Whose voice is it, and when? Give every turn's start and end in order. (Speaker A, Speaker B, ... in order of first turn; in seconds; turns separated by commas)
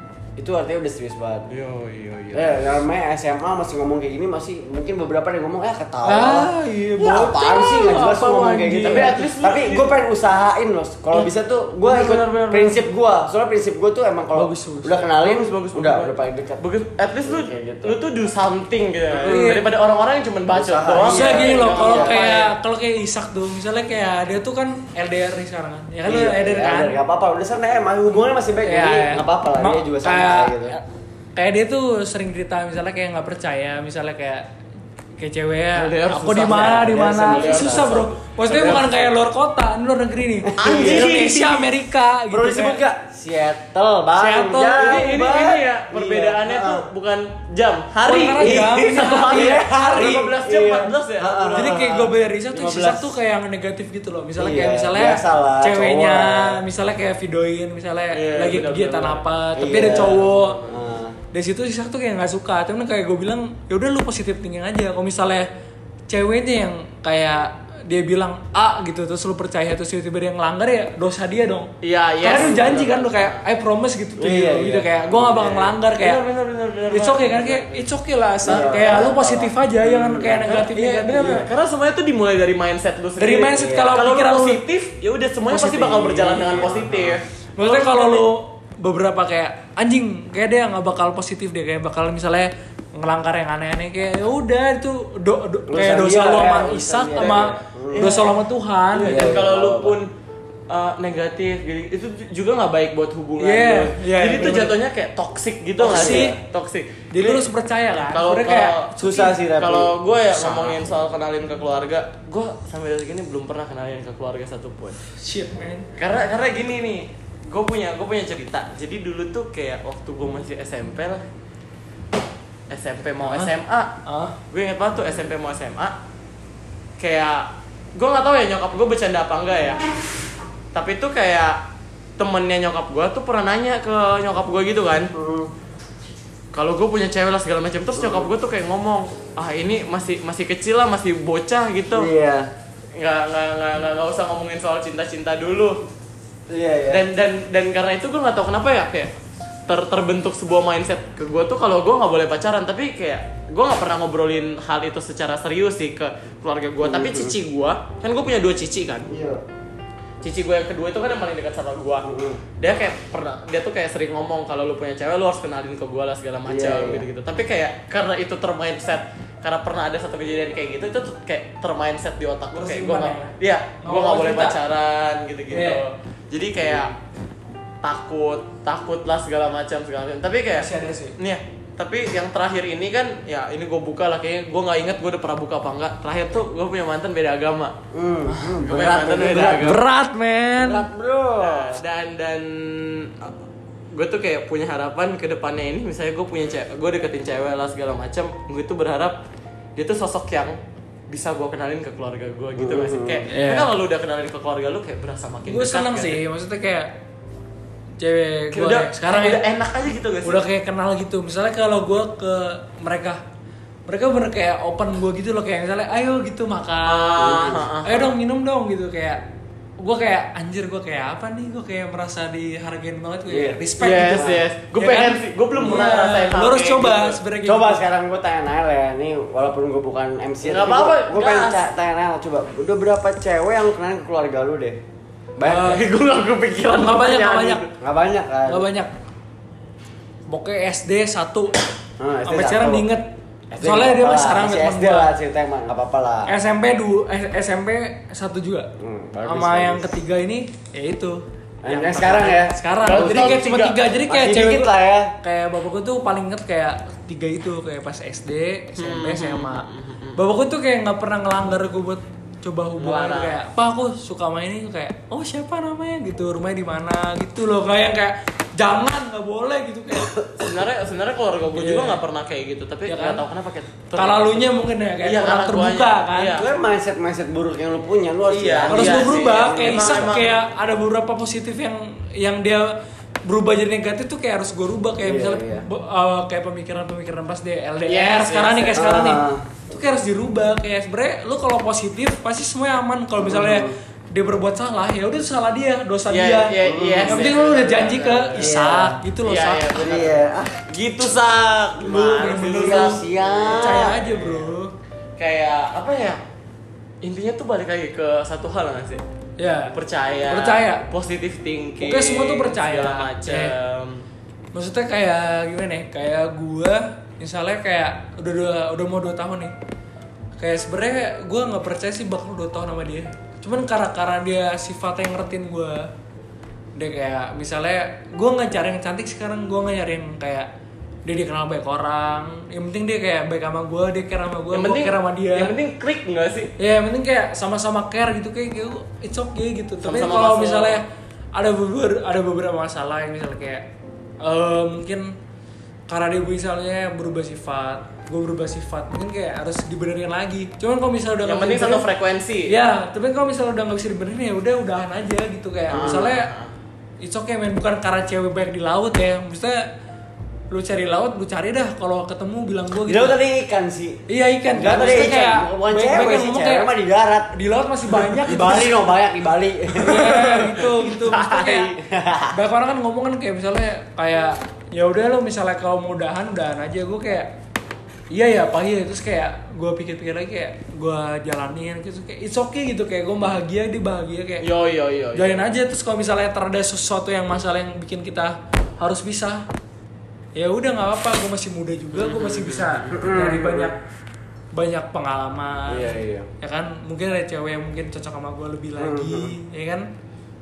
Speaker A: 0.4-1.5, Speaker B: 1.5-2.6, Speaker A: 2.3-16.6, Speaker C: 6.0-9.3, Speaker B: 8.8-9.9, Speaker C: 11.9-12.7, Speaker C: 14.3-15.0, Speaker B: 15.1-22.5, Speaker A: 17.2-18.0, Speaker A: 19.1-19.5, Speaker C: 19.3-19.6, Speaker A: 20.5-22.3, Speaker C: 21.0-26.9, Speaker A: 26.1-30.7, Speaker C: 28.6-30.8, Speaker C: 31.4-34.5, Speaker C: 35.2-42.8, Speaker B: 35.7-38.9, Speaker A: 36.4-38.0, Speaker A: 38.5-38.8, Speaker A: 40.4-41.3, Speaker B: 40.6-41.7, Speaker A: 42.3-46.9, Speaker C: 44.2-45.3, Speaker B: 44.7-51.9, Speaker C: 48.0-50.3, Speaker A: 48.4-53.1, Speaker C: 51.5-60.6, Speaker A: 54.4-56.6, Speaker B: 58.1-60.8, Speaker A: 59.5-61.2, Speaker C: 61.3-65.5, Speaker C: 66.1-71.7, Speaker B: 71.8-73.4, Speaker C: 72.2-76.2, Speaker A: 72.3-72.9, Speaker A: 74.2-75.7, Speaker B: 76.0-77.9, Speaker C: 76.9-81.4, Speaker B: 78.4-79.1, Speaker A: 78.4-80.6, Speaker B: 80.5-88.3, Speaker A: 81.2-81.4, Speaker C: 83.2-84.6, Speaker A: 83.5-84.0, Speaker A: 85.5-87.2, Speaker C: 87.6-99.4, Speaker A: 95.7-98.2, Speaker B: 97.2-98.3, Speaker B: 98.9-100.1, Speaker A: 99.0-100.0, Speaker B: 100.7-115.0, Speaker C: 103.4-104.7, Speaker A: 105.8-106.4, Speaker C: 105.8-106.3, Speaker C: 107.1-109.4, Speaker A: 109.0-110.8, Speaker C: 115.2-115.9, Speaker B: 116.0-121.2, Speaker B: 122.7-123.9, Speaker C: 123.2-123.5, Speaker C: 124.0-124.3, Speaker B: 124.5-125.9, Speaker B: 127.0-129.8, Speaker B: 130.7-131.6, Speaker B: 132.2-135.1, Speaker A: 135.1-135.5, Speaker B: 136.5-142.1, Speaker A: 137.9-138.3, Speaker A: 141.9-142.5, Speaker B: 142.9-145.8, Speaker A: 146.5-147.0, Speaker B: 146.9-149.1, Speaker B: 149.7-159.1, Speaker A: 156.8-157.3, Speaker A: 159.1-159.4, Speaker B: 160.2-162.1, Speaker A: 162.0-162.4, Speaker B: 162.6-176.9, Speaker A: 166.4-167.0, Speaker C: 172.5-174.6, Speaker C: 175.5-175.8, Speaker B: 177.8-187.7, Speaker C: 180.5-181.1, Speaker A: 187.9-189.8, Speaker B: 188.6-189.8, Speaker C: 189.3-190.8, Speaker A: 190.6-191.8, Speaker B: 191.4-193.3, Speaker B: 193.9-199.2, Speaker B: 199.8-200.6, Speaker B: 201.1-206.2, Speaker A: 202.6-203.2, Speaker C: 203.3-203.7, Speaker C: 205.5-206.9, Speaker C: 208.0-209.4, Speaker B: 208.5-210.4, Speaker C: 210.2-213.2, Speaker C: 213.9-219.2, Speaker B: 216.8-218.1, Speaker A: 217.2-217.7, Speaker C: 219.8-227.8, Speaker A: 223.3-224.4, Speaker B: 223.8-227.2, Speaker A: 225.6-225.9, Speaker A: 227.4-234.8, Speaker B: 230.4-231.6, Speaker A: 235.4-235.8, Speaker C: 235.4-235.8, Speaker B: 235.5-237.7, Speaker C: 236.7-237.6, Speaker A: 237.8-238.7, Speaker C: 238.5-238.9, Speaker C: 240.3-241.5, Speaker A: 242.0-242.8, Speaker C: 242.2-243.1, Speaker A: 243.5-246.3, Speaker C: 243.6-245.1, Speaker C: 246.3-248.7, Speaker A: 248.8-249.9, Speaker C: 249.2-254.7, Speaker A: 251.6-253.4, Speaker B: 252.8-253.8, Speaker A: 254.1-255.1, Speaker C: 255.2-259.6, Speaker B: 258.8-260.2, Speaker C: 260.1-270.1, Speaker B: 262.8-263.4, Speaker A: 269.9-270.5, Speaker B: 270.4-274.5, Speaker C: 271.5-272.0, Speaker C: 272.9-273.2, Speaker C: 273.9-276.4, Speaker B: 275.0-276.5, Speaker A: 276.3-280.1, Speaker B: 278.3-280.4, Speaker C: 278.7-299.8, Speaker A: 285.0-285.6, Speaker B: 287.9-288.8, Speaker A: 288.7-289.4, Speaker A: 293.2-293.7, Speaker B: 296.1-298.5, Speaker A: 296.6-297.4, Speaker A: 298.4-299.0, Speaker B: 299.2-304.3, Speaker A: 299.8-300.6, Speaker C: 301.8-303.0, Speaker A: 302.3-304.1, Speaker C: 303.5-304.7, Speaker B: 305.2-306.2, Speaker B: 307.0-309.0, Speaker C: 309.4-309.7, Speaker B: 309.7-314.0, Speaker C: 310.3-310.8, Speaker C: 311.8-313.5, Speaker C: 314.5-319.5, Speaker C: 320.4-325.9, Speaker C: 326.8-330.5, Speaker C: 331.0-335.5, Speaker B: 334.5-336.5, Speaker C: 336.6-343.7, Speaker B: 339.8-340.8, Speaker C: 344.2-345.1, Speaker C: 345.9-351.8, Speaker B: 351.2-352.5, Speaker C: 352.5-356.3, Speaker A: 355.7-356.1, Speaker B: 355.7-356.5, Speaker C: 357.0-359.7, Speaker C: 360.5-363.2, Speaker A: 362.9-367.3, Speaker C: 364.1-366.7, Speaker B: 364.7-365.1, Speaker C: 367.3-368.8, Speaker A: 367.9-370.6, Speaker C: 369.7-371.7, Speaker B: 370.1-371.7, Speaker A: 371.7-372.3, Speaker C: 372.3-377.3, Speaker C: 378.1-384.4, Speaker B: 384.4-385.4, Speaker C: 385.1-389.4, Speaker C: 390.4-393.8, Speaker B: 391.9-392.9, Speaker A: 392.9-393.7, Speaker C: 394.5-399.9, Speaker A: 395.7-396.3, Speaker A: 398.8-399.3